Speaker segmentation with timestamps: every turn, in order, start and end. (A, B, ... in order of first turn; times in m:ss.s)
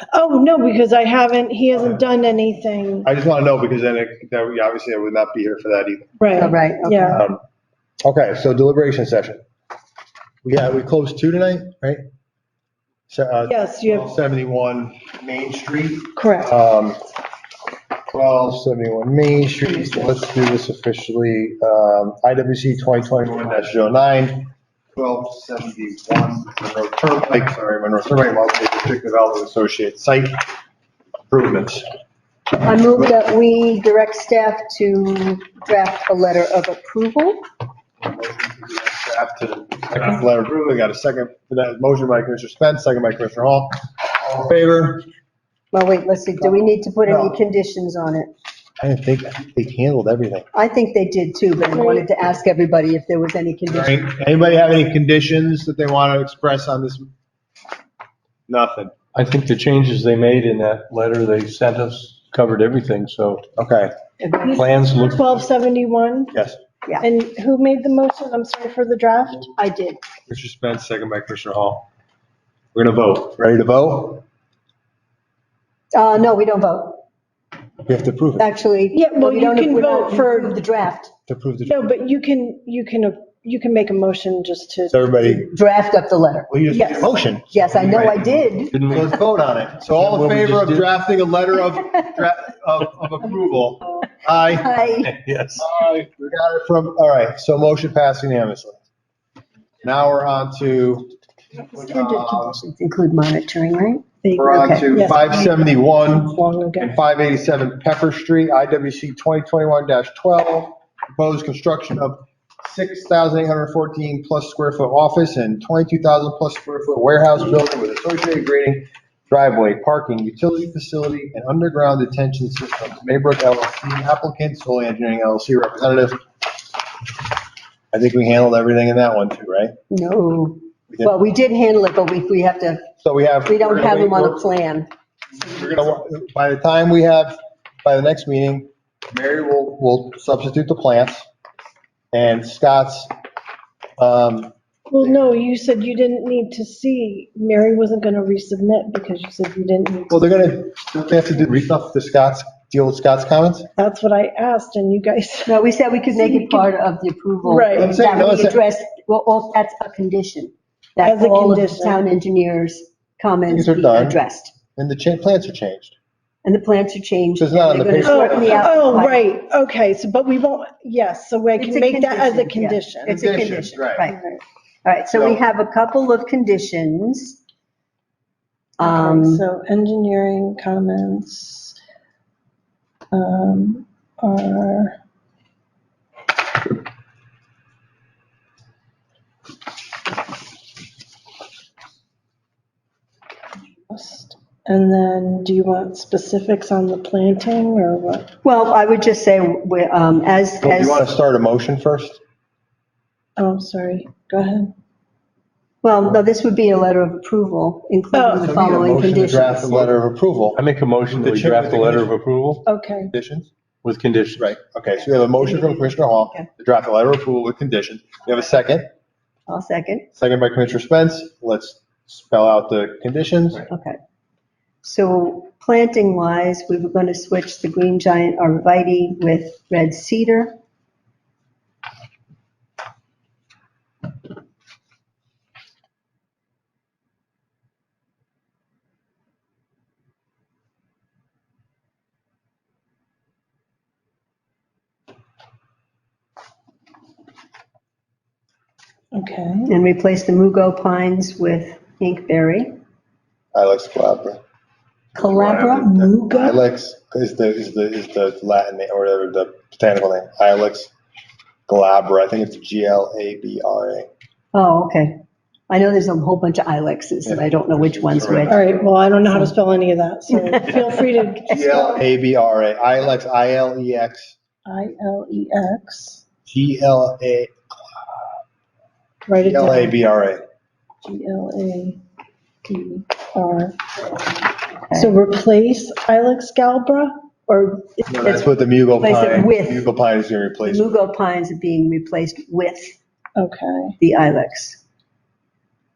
0:00.1-0:03.1 A
0:03.0-0:06.2 B
0:06.2-0:07.2 A
0:06.3-0:07.2 C
0:07.1-0:07.4 B
0:08.0-0:09.4 B
0:10.4-0:12.0 B
0:13.1-0:17.0 B
0:13.4-0:14.2 A
0:16.2-0:16.5 A
0:18.1-0:30.4 B
0:31.3-0:31.8 B
0:32.5-0:37.4 C
0:38.0-0:45.0 B
0:45.7-0:48.3 C
0:46.4-0:47.4 B
0:48.8-0:50.5 B
0:50.5-0:54.1 C
0:51.8-0:52.0 A
0:53.7-0:57.1 B
0:58.5-0:58.9 B
0:59.1-1:03.4 D
1:03.6-1:03.9 B
1:04.2-1:04.7 C
1:04.4-1:06.3 A
1:04.6-1:05.3 D
1:06.3-1:06.6 B
1:07.0-1:09.5 A
1:09.6-1:10.0 C
1:10.3-1:11.9 B
1:12.7-1:14.2 B
1:15.9-1:17.0 C
1:17.9-1:18.5 B
1:18.4-1:21.1 C
1:18.9-1:20.6 A
1:21.3-1:21.8 B
1:21.7-1:25.0 A
1:24.9-1:25.5 B
1:25.2-1:26.5 C
1:26.5-1:34.7 B
1:26.7-1:27.1 A
1:27.5-1:28.7 C
1:28.7-1:29.3 D
1:29.8-1:30.9 D
1:34.4-1:35.2 C
1:35.0-1:35.7 D
1:35.6-1:38.8 B
1:39.8-1:41.1 B
1:41.7-1:42.6 B
1:41.7-1:45.2 C
1:44.4-2:06.2 B
1:44.9-1:47.0 A
2:07.9-2:09.8 B
2:09.9-2:12.9 C
2:10.9-2:11.1 B
2:13.0-2:14.5 B
2:13.4-2:14.9 C
2:15.3-2:21.2 B
2:22.1-2:23.1 B
2:24.0-2:24.5 B
2:24.9-2:30.3 A
2:30.1-2:33.7 B
2:33.8-2:35.6 A
2:35.4-2:44.5 C
2:36.1-2:36.7 A
2:37.4-2:38.0 A
2:37.8-2:38.6 B
2:41.0-2:42.0 A
2:43.5-2:44.2 B
2:44.8-2:45.9 B
2:46.4-2:49.2 C
2:47.4-2:48.9 B
2:48.0-2:53.1 A
2:51.6-2:54.2 C
2:53.1-2:54.1 B
2:54.1-2:54.4 A
2:54.8-2:57.4 C
2:55.1-2:55.4 B
2:58.8-2:59.4 C
2:58.8-3:01.8 A
3:03.1-3:05.0 A
3:13.9-3:18.3 A
3:18.4-3:21.1 C
3:20.6-3:22.2 B
3:23.4-3:24.7 A
3:25.8-3:29.9 C
3:28.1-3:28.7 A
3:28.4-3:30.6 B
3:30.5-3:32.6 D
3:31.1-3:32.1 B
3:32.7-3:33.1 A
3:33.1-3:33.5 B
3:33.8-3:34.5 D
3:34.4-3:38.8 B
3:35.4-3:36.4 C
3:39.5-3:40.1 C
3:40.1-3:43.7 B
3:43.7-3:44.0 C
3:44.8-3:50.5 C
4:09.1-4:09.7 A
4:09.7-4:12.8 C
4:13.5-4:14.4 B
4:15.1-4:16.4 C
4:15.2-4:20.9 B
4:16.2-4:16.6 A
4:21.7-4:24.1 B
4:24.5-4:28.6 C
4:27.2-4:28.8 B
4:28.5-4:32.0 A
4:29.3-4:29.5 C
4:30.3-4:31.8 C
4:31.5-4:34.3 B
4:34.6-4:36.2 A
4:36.4-4:37.6 B
4:39.3-4:40.0 A
4:39.4-4:40.4 B
4:41.0-4:42.0 A
4:42.6-4:44.4 A
4:44.9-4:48.1 A
4:48.1-4:50.9 B
4:49.0-4:49.9 C
4:50.6-4:53.0 C
4:53.4-4:53.9 A
4:54.0-4:54.8 C